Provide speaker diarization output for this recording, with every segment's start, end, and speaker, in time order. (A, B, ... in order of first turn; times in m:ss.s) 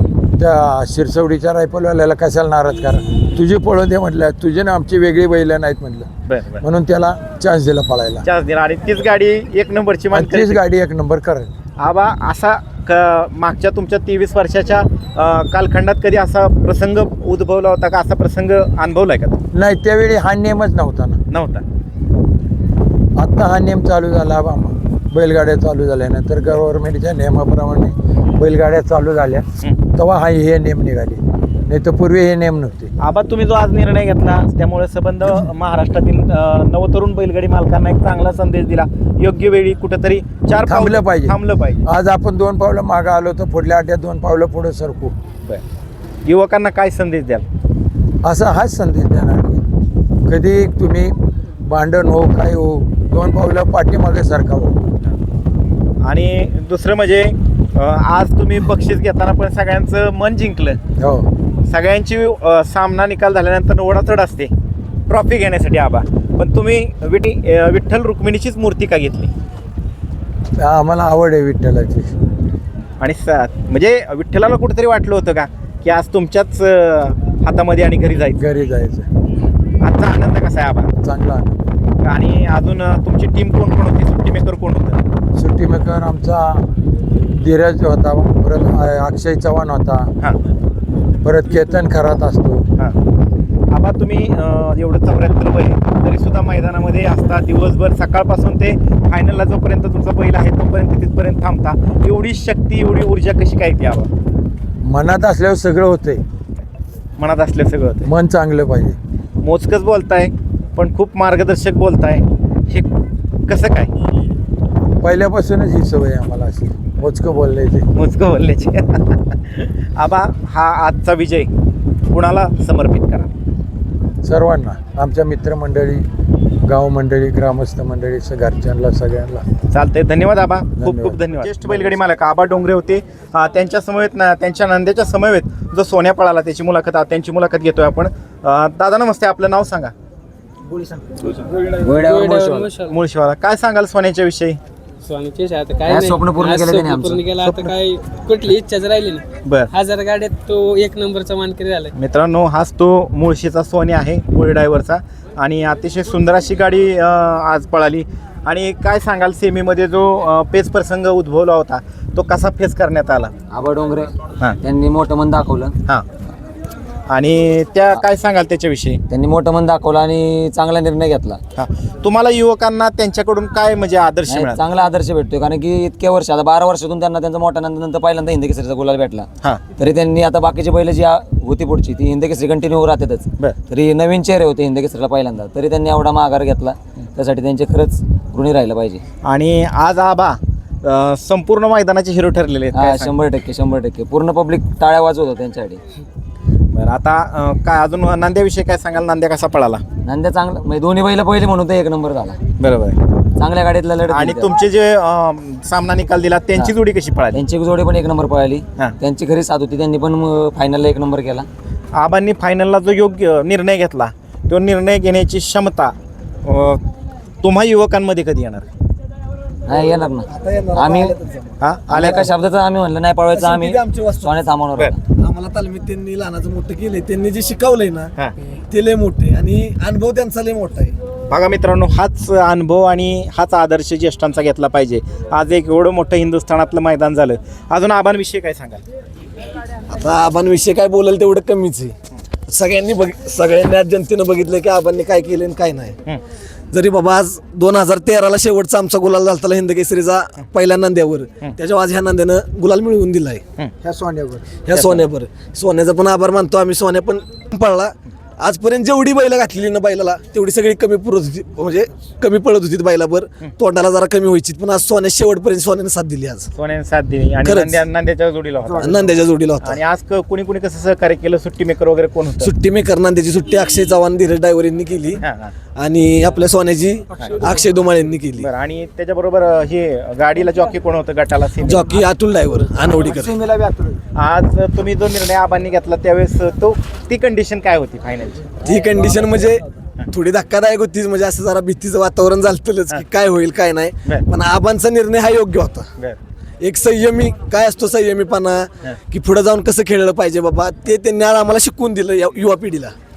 0:00.4-0:06.1 A
0:06.3-0:06.6 B
0:06.6-0:08.2 A
0:08.2-0:10.6 B
0:10.1-0:11.5 A
0:11.8-0:19.4 B
0:19.5-0:21.2 A
0:21.3-0:21.6 B
0:23.2-0:32.9 A
0:33.0-0:41.8 B
0:40.7-0:45.2 A
0:46.2-0:47.4 B
0:48.2-0:49.6 A
0:50.3-0:54.8 A
0:56.0-1:00.8 B
1:01.0-1:01.3 A
1:01.7-1:04.5 B
1:05.1-1:09.3 B
1:10.6-1:12.1 A
1:13.0-1:18.4 B
1:18.4-1:19.1 A
1:19.8-1:20.9 B
1:21.0-1:21.6 A
1:22.0-1:25.0 B
1:25.4-1:26.7 A
1:27.2-1:30.1 A
1:31.2-1:32.7 A
1:33.7-1:44.1 B
1:44.8-1:46.2 A
1:47.2-1:48.1 B
1:48.0-1:49.0 A
1:49.4-1:52.9 B
1:53.5-1:53.9 B
1:55.0-1:57.9 A
1:58.0-2:01.5 B
2:02.1-2:03.3 B
2:04.2-2:06.1 A
2:06.6-2:09.4 A
2:09.7-2:19.9 B
2:10.8-2:12.0 A
2:21.3-2:22.7 C
2:22.0-2:23.0 D
2:22.8-2:24.6 B
2:25.0-2:31.9 D
2:25.9-2:27.2 C
2:27.4-2:27.7 B
2:29.4-2:29.7 B
2:32.0-2:43.3 B
2:43.5-2:45.8 C
2:47.1-2:49.0 B
2:49.1-2:51.4 C
2:51.6-2:54.6 B
2:54.3-2:59.3 C
2:59.8-3:09.0 C
3:09.2-3:13.2 B
3:12.7-3:15.8 C
3:16.7-3:19.8 B
3:20.0-3:22.4 C
3:22.6-3:23.0 B
3:23.4-3:24.5 C
3:24.1-3:27.4 B
3:27.3-3:31.5 C
3:31.9-3:36.8 B
3:37.4-3:38.7 B
3:39.7-3:41.2 C
3:39.7-3:42.2 E
3:41.6-3:42.3 B
3:41.9-3:45.0 C
3:43.3-3:44.4 E
3:45.2-3:48.1 E
3:48.7-3:51.0 E
3:51.3-3:58.8 B
3:59.9-4:02.0 E
4:02.5-4:06.0 E
4:06.7-4:13.4 E
4:14.6-4:26.5 E
4:14.7-4:15.0 B
4:26.5-4:29.0 B
4:27.4-4:27.8 E
4:28.7-4:29.8 E
4:29.6-4:32.5 B
4:32.4-4:35.2 E
4:35.2-4:35.5 B
4:35.8-4:38.5 E
4:37.2-4:37.4 B
4:38.4-4:42.0 B
4:41.6-4:43.4 E
4:43.4-4:43.9 C
4:44.1-4:48.6 B
4:48.6-4:55.9 E
4:49.0-4:49.4 C
4:56.6-5:02.9 E